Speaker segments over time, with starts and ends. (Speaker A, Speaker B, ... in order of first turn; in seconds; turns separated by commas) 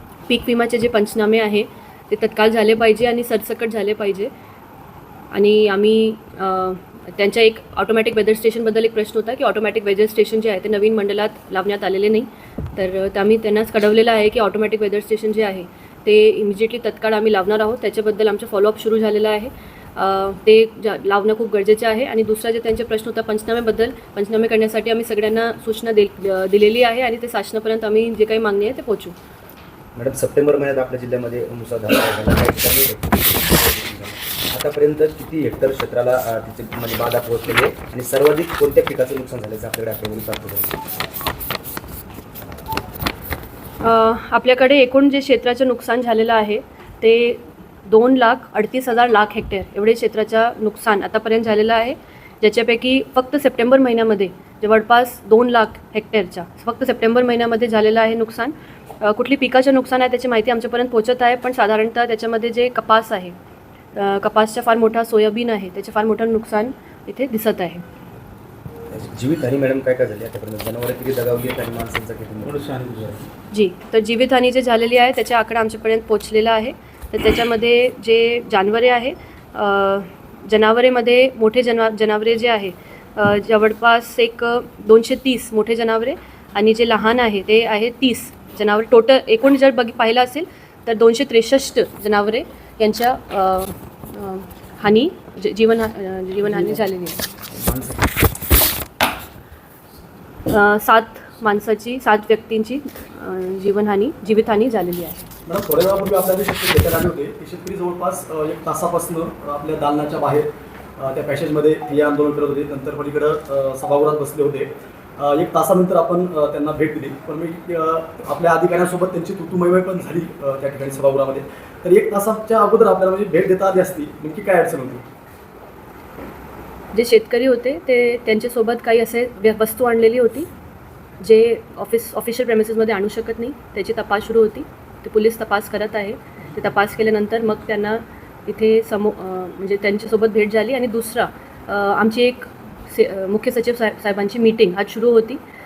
Speaker A: 0.3-4.3, Speaker A: 5.3-29.1, Speaker B: 29.9-40.8, Speaker A: 43.8-63.3, Speaker A: 63.9-67.8, Speaker B: 68.9-72.7, Speaker A: 73.5-97.3, Speaker A: 100.5-105.3, Speaker C: 105.5-110.5, Speaker C: 111.0-125.0, Speaker A: 126.9-130.5, Speaker A: 131.2-145.4